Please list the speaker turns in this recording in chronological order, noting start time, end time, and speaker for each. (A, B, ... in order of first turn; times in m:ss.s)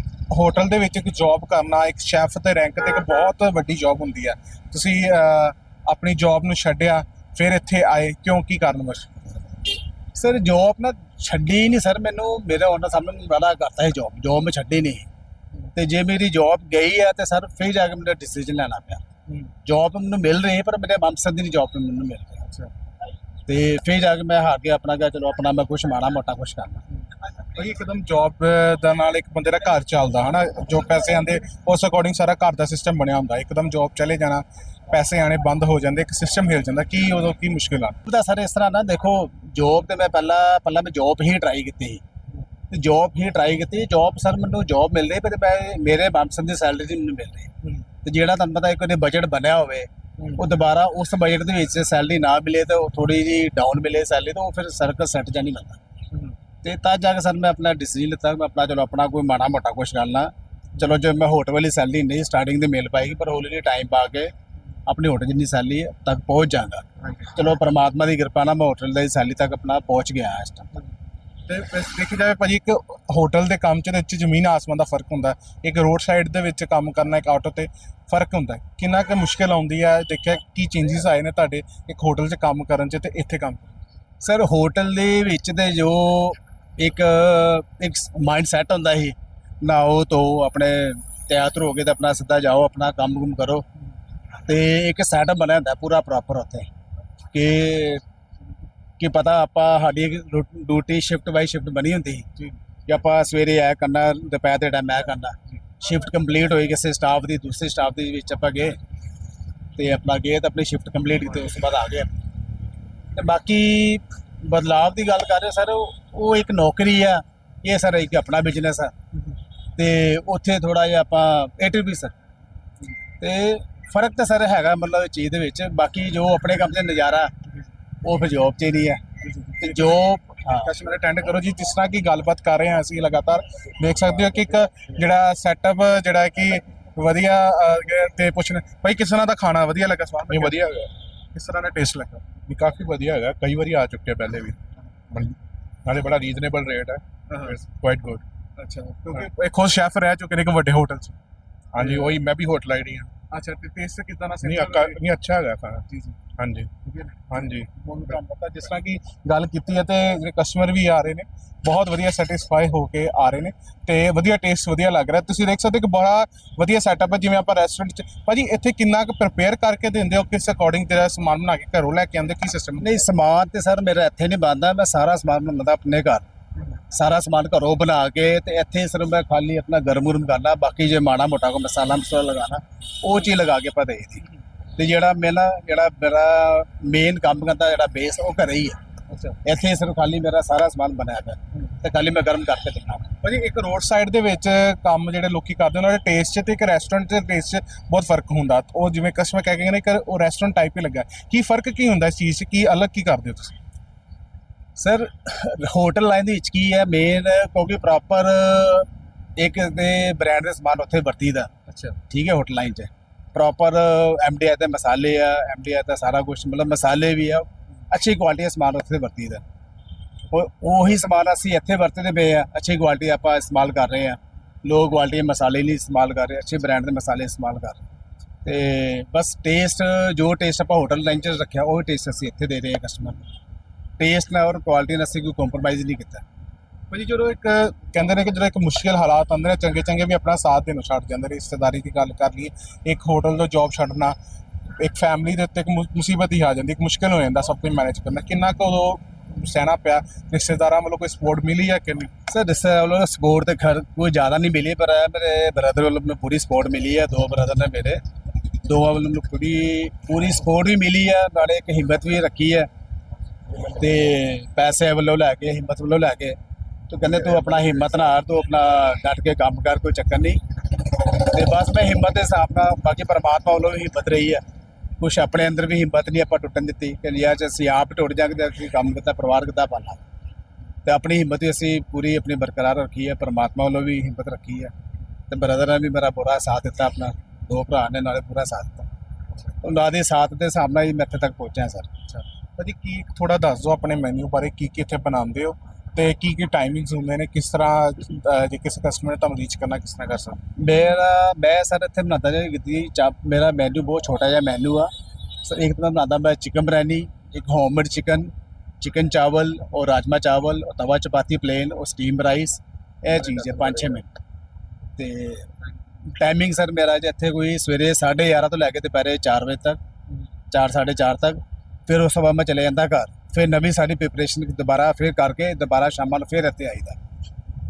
0:00.3-0:09.1 A
0:10.1-0:15.1 B
0:15.7-0:19.0 B
0:19.6-0:22.4 B
0:23.5-0:26.8 B
0:27.5-0:38.0 A
0:38.0-0:42.0 B
0:42.7-0:47.5 B
0:48.0-0:55.8 B
0:56.6-1:04.3 B
1:04.9-1:10.7 B
1:11.5-1:23.7 A
1:24.2-1:33.6 B
1:34.4-1:36.7 B
1:37.3-1:38.0 B
1:39.0-1:42.3 B
1:42.9-1:48.8 B
1:49.8-1:52.1 B
1:53.1-1:58.9 B
1:59.8-2:02.1 B
2:03.2-2:07.3 B
2:08.0-2:09.0 B
2:09.2-2:20.6 A
2:09.6-2:10.7 B
2:20.3-2:20.9 C
2:21.3-2:22.2 A
2:22.5-2:24.6 C
2:25.1-2:28.2 C
2:27.3-2:27.6 A
2:28.6-2:31.2 A
2:31.7-2:33.1 C
2:31.8-2:32.1 A
2:33.3-2:35.0 A
2:34.4-2:35.8 C
2:35.9-2:36.2 A
2:36.4-2:36.7 C
2:36.8-2:53.0 A
2:37.3-2:37.7 C
2:52.8-2:56.2 B
2:56.9-3:04.2 B
3:04.8-3:08.8 B
3:09.1-3:09.4 A
3:09.4-3:13.1 B
3:13.2-3:23.5 A
3:24.8-3:31.5 B
3:31.7-3:31.9 A
3:32.1-3:39.4 B
3:40.3-3:47.8 B
3:48.4-3:53.3 B
3:54.0-3:56.2 B
3:56.9-4:04.2 A
4:04.8-4:12.1 A
4:12.3-4:18.0 B
4:18.6-4:22.7 B
4:23.7-4:26.4 B
4:26.9-4:30.4 B
4:31.0-4:34.4 B
4:35.0-4:40.0 B
4:40.8-4:44.7 B
4:45.3-4:48.9 B
4:49.6-4:51.9 B
4:52.1-5:00.4 A
5:00.6-5:04.9 B
5:05.4-5:14.2 B
5:15.0-5:15.5 B
5:16.0-5:19.8 B
5:20.5-5:27.0 B